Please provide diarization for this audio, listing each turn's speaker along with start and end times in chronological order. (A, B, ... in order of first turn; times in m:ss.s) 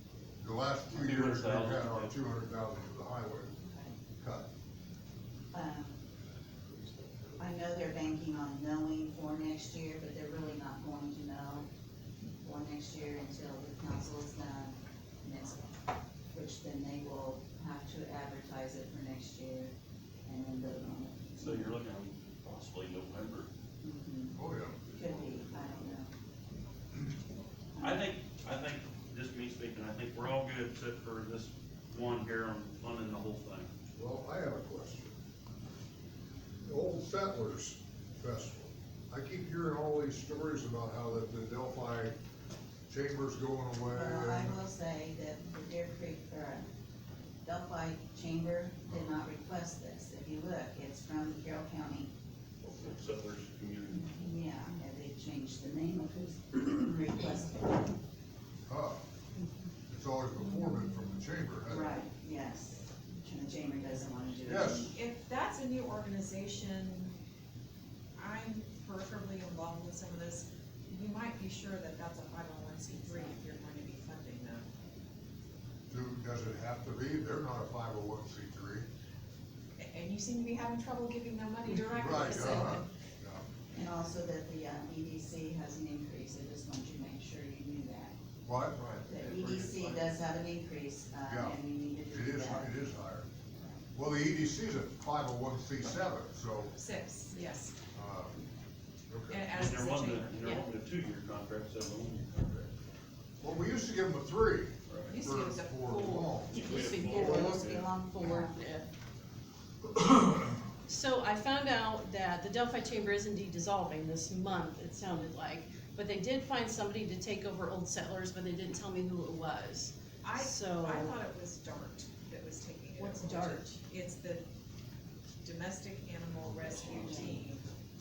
0:00.4-0:03.5 A
0:00.9-0:02.1 B
0:03.7-0:04.0 C
0:04.2-0:04.5 A
0:05.5-0:06.0 C
0:07.4-0:11.7 C
0:12.4-0:15.7 C
0:16.3-0:19.7 C
0:20.3-0:21.7 C
0:21.4-0:23.5 B
0:23.8-0:26.1 C
0:24.4-0:24.8 A
0:27.8-0:33.7 B
0:34.0-0:35.1 A
0:36.7-0:42.2 A
0:42.9-0:44.6 A
0:43.9-0:46.6 C
0:47.4-0:52.1 C
0:52.6-0:54.3 B
0:53.9-0:58.0 C
0:58.7-0:59.0 A
0:59.9-1:02.0 A
1:01.7-1:05.0 C
1:04.5-1:04.9 A
1:04.9-1:07.1 D
1:08.2-1:14.6 D
1:15.9-1:18.9 A
1:19.8-1:22.9 D
1:21.9-1:23.4 A
1:23.7-1:28.1 C
1:28.5-1:30.1 A
1:29.0-1:32.8 C
1:31.3-1:33.3 A
1:33.9-1:36.7 A
1:36.8-1:37.7 D
1:37.9-1:38.4 A
1:39.1-1:39.4 A
1:39.3-1:40.4 D
1:39.6-1:42.7 B
1:43.4-1:47.2 A
1:44.9-1:45.1 B
1:45.1-1:46.2 D
1:45.8-1:48.9 E
1:46.5-1:47.9 B
1:47.2-1:48.5 C
1:50.9-2:01.1 E
2:00.2-2:04.4 D
2:03.0-2:03.7 E
2:05.4-2:07.6 D
2:06.9-2:07.4 C